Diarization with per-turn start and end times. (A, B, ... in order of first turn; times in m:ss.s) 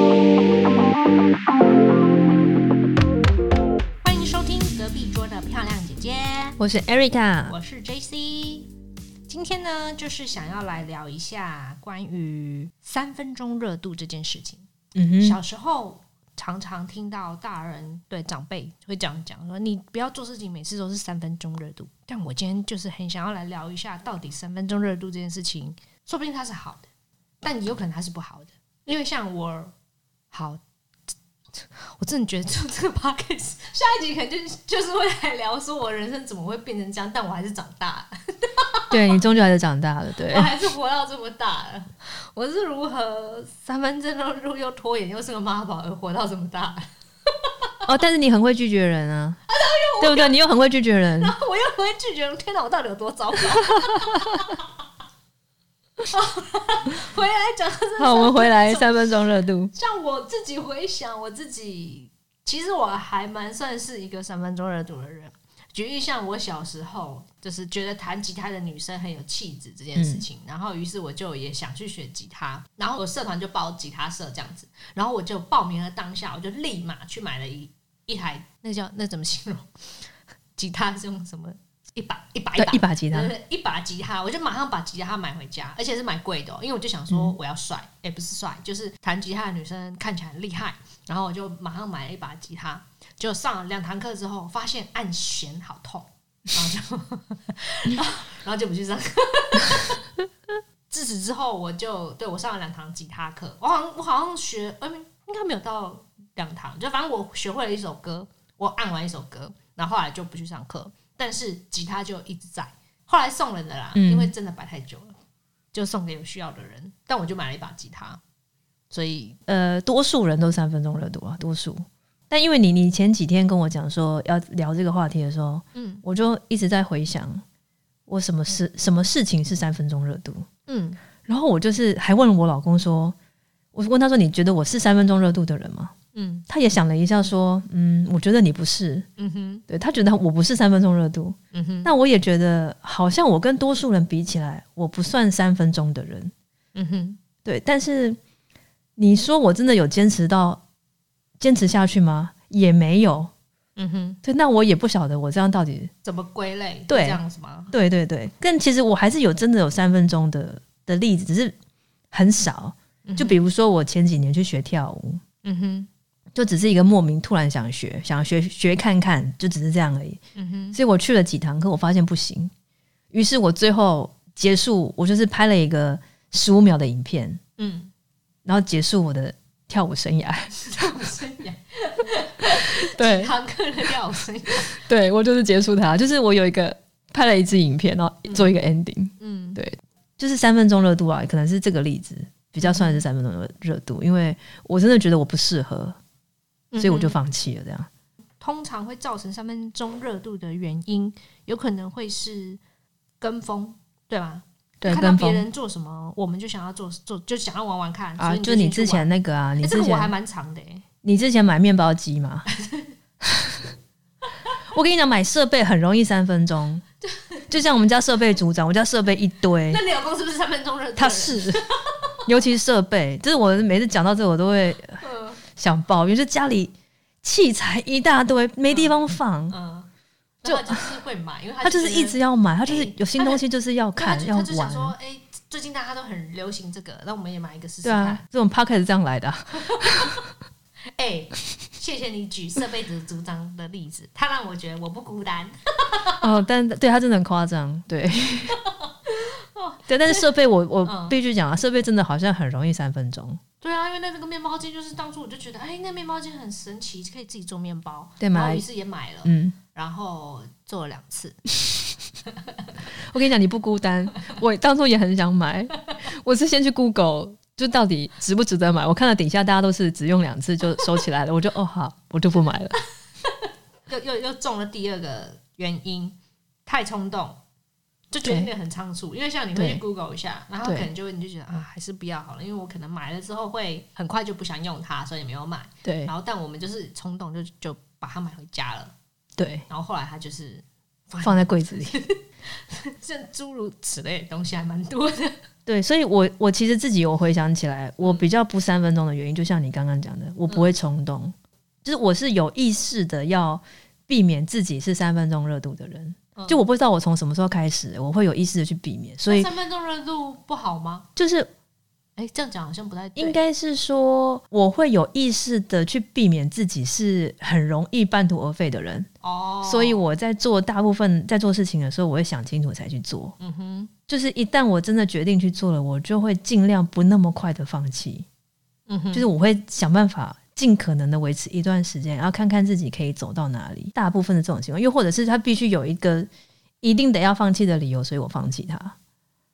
0:04.0-0:06.6 A
0:06.6-0:07.5 B
0:07.5-0:08.7 A
0:09.3-0:14.7 A
0:15.0-0:15.4 B
0:15.2-0:26.9 A
0:27.4-0:29.7 A
0:30.3-0:30.6 A
0:31.5-0:39.2 A
0:38.9-0:40.5 B
0:40.2-0:47.8 A
0:47.8-0:49.4 B
0:49.5-0:50.3 A
0:50.0-0:51.3 B
0:51.2-0:54.7 A
0:53.8-0:54.4 B
0:56.1-0:59.0 A
0:58.0-0:59.7 B
0:59.7-1:40.0 A
1:10.0-1:10.2 B
1:22.6-1:23.3 B
1:27.1-1:27.3 B
1:40.9-1:55.1 A
1:53.9-1:54.3 B
1:55.7-1:58.2 A
1:58.9-1:59.4 A
1:59.5-2:07.4 B
2:05.7-2:06.0 A
2:08.1-2:10.4 B
2:10.7-2:11.0 A
2:11.2-2:13.2 B
2:13.7-2:15.9 B
2:16.1-2:16.4 A
2:16.5-2:19.1 B
2:19.2-2:19.6 A
2:19.7-2:26.3 B
2:21.5-2:21.9 A
2:26.7-2:27.2 A
2:27.4-2:28.2 B
2:29.0-2:30.6 B
2:31.4-2:33.3 B
2:33.8-2:34.2 A
2:34.2-2:35.9 B
2:36.0-2:37.7 A
2:36.9-2:37.2 B
2:37.7-2:41.5 B
2:42.1-2:45.2 B
2:43.0-2:43.4 A
2:45.4-2:45.9 A
2:46.3-2:50.2 B
2:50.4-2:50.8 A
2:50.7-2:52.5 B
2:53.1-2:57.4 B
2:57.6-2:57.9 A
2:58.4-3:00.9 B
3:00.6-3:04.8 A
3:02.4-3:03.3 B
3:04.7-3:16.0 B
3:08.3-3:08.5 A
3:09.2-3:09.6 A
3:12.6-3:13.0 A
3:16.7-3:17.1 A
3:16.8-3:17.9 B
3:18.4-3:22.6 A
3:23.2-3:30.8 A
3:24.8-3:25.4 B
3:28.2-3:30.1 B
3:31.0-3:32.4 B
3:32.5-3:32.9 A
3:33.2-3:33.6 B
3:34.7-3:36.8 B
3:37.0-3:37.5 A
3:37.5-3:39.8 B
3:39.7-3:42.2 A
3:41.0-3:41.6 B
3:42.3-3:49.6 B
3:45.0-3:45.4 A
3:48.7-3:49.9 A
3:50.4-3:53.4 A
3:50.4-3:50.8 B
3:51.6-3:54.9 B
3:54.0-3:58.2 A
3:57.8-4:00.2 B
3:59.6-4:00.2 A
4:01.0-4:06.3 A
4:06.2-4:08.6 B
4:09.0-4:10.3 A
4:09.9-4:13.4 B
4:10.8-4:11.2 A
4:13.6-4:21.4 A
4:18.2-4:18.6 B
4:19.2-4:19.6 B
4:23.1-4:32.8 B
4:33.9-4:37.4 A
4:38.1-4:48.9 A
4:38.2-4:38.5 B
4:39.5-4:39.8 B
4:40.6-4:40.9 B
4:45.8-4:46.1 B
4:49.4-4:49.6 B
4:49.7-4:55.4 A
4:51.2-4:52.0 B
4:55.7-5:09.5 B
5:06.4-5:06.6 A
5:09.3-5:11.1 A
5:11.2-5:11.5 B
5:12.2-5:13.4 A
5:13.2-5:19.1 B
5:19.2-5:20.0 A
5:19.6-5:23.3 B
5:23.4-5:23.9 A
5:24.1-5:28.2 B
5:28.9-5:29.3 A
5:29.1-5:36.3 B
5:36.8-5:39.0 B